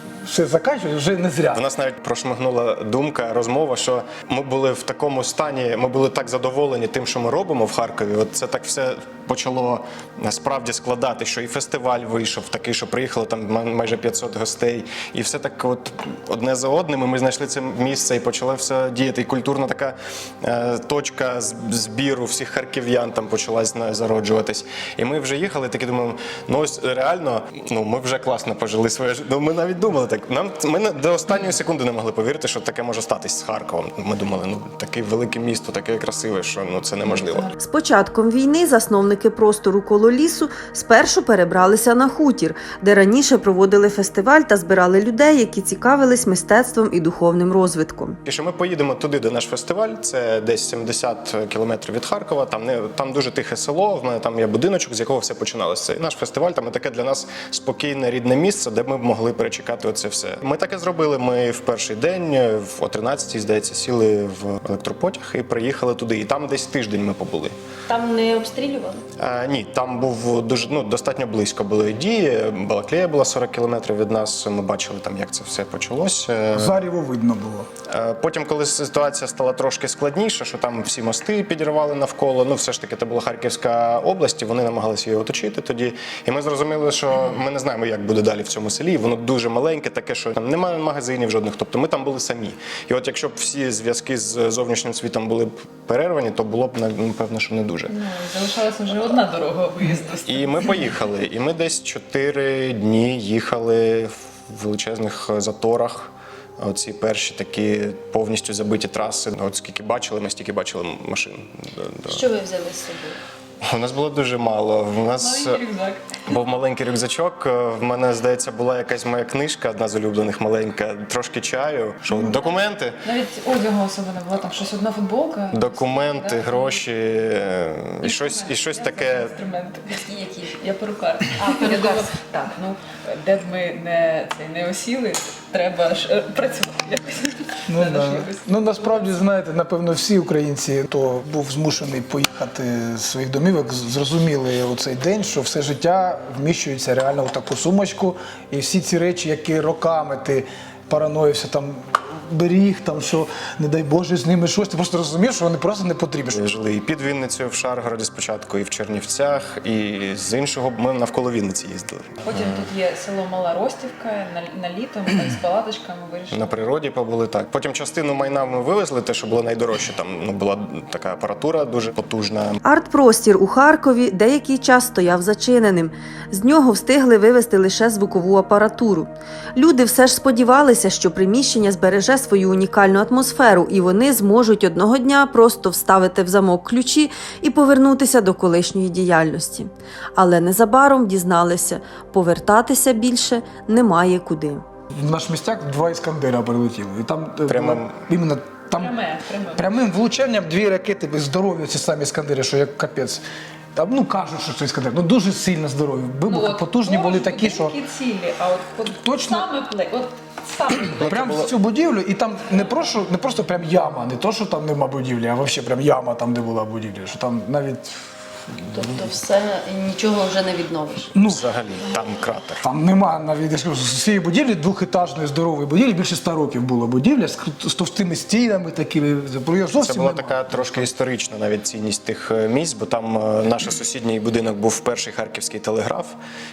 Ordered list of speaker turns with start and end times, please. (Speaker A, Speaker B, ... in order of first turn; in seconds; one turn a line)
Speaker A: 0.2-1.6
Speaker B: 1.5-37.5
Speaker C: 37.0-37.5
Speaker D: 37.5-48.2
Speaker B: 48.2-67.5
Speaker E: 67.9-69.0
Speaker B: 69.2-76.8
Speaker A: 76.5-77.7
Speaker B: 77.9-97.9
Speaker C: 97.9-100.7
Speaker B: 100.3-112.3
Speaker E: 112.1-113.1
Speaker B: 113.7-115.6
Speaker C: 115.2-116.2
Speaker B: 116.3-123.0
Speaker C: 122.2-126.8
Speaker B: 125.5-129.3
Speaker C: 128.0-139.2
Speaker A: 137.7-156.4
Speaker B: 156.3-162.4
Speaker C: 162.2-166.6
Speaker B: 166.3-172.6
Speaker D: 172.6-194.6
Speaker A: 194.9-198.9
Speaker B: 197.5-198.0
Speaker C: 198.7-199.7
Speaker A: 199.5-203.2
Speaker A: 203.7-207.7
Speaker C: 206.2-211.1
Speaker A: 209.0-209.4
Speaker B: 210.9-211.5
Speaker A: 211.0-219.0
Speaker E: 218.7-221.1
Speaker A: 221.1-221.4
Speaker B: 221.2-222.6
Speaker A: 222.6-230.9
Speaker B: 229.8-236.1